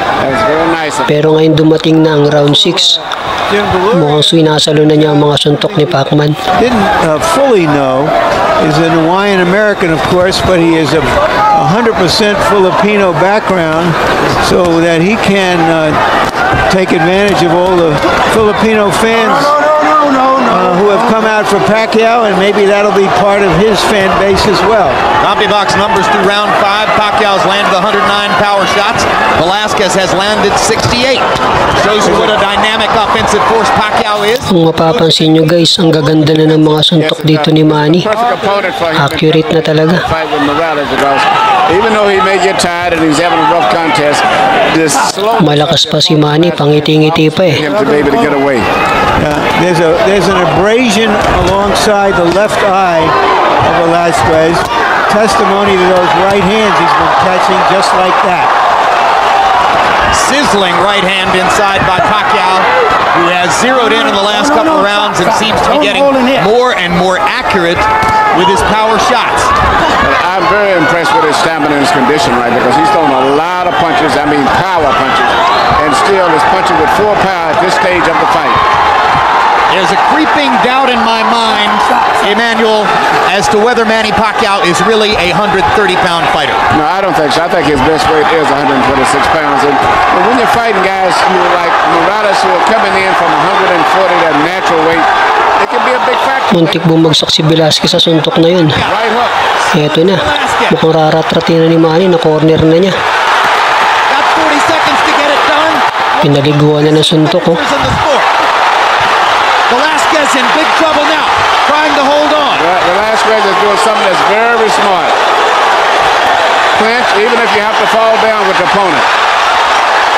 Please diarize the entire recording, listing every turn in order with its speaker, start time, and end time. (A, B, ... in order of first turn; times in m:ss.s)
0:00.2-0:01.2 A
0:01.1-0:03.0 B
0:03.5-0:05.5 C
0:03.9-0:06.4 B
0:06.6-0:16.0 C
0:16.7-0:19.7 C
0:20.3-0:25.0 C
0:25.2-0:35.3 D
0:32.0-0:32.3 C
0:34.5-0:38.1 B
0:36.9-0:48.7 A
0:38.9-0:40.0 B
0:45.4-0:47.6 B
0:47.6-0:48.4 C
0:49.2-0:58.5 C
1:00.1-1:09.5 D
1:10.0-1:18.6 A
1:19.7-1:26.6 D
1:26.7-1:37.0 A
1:36.5-1:38.8 B
1:38.5-1:39.0 D
1:38.8-1:39.4 A
1:39.7-1:40.8 D
1:39.7-1:42.9 B
1:44.1-1:48.3 D
1:46.2-1:47.6 B
1:49.7-1:52.6 D
1:52.5-1:55.2 A
1:56.7-1:59.1 A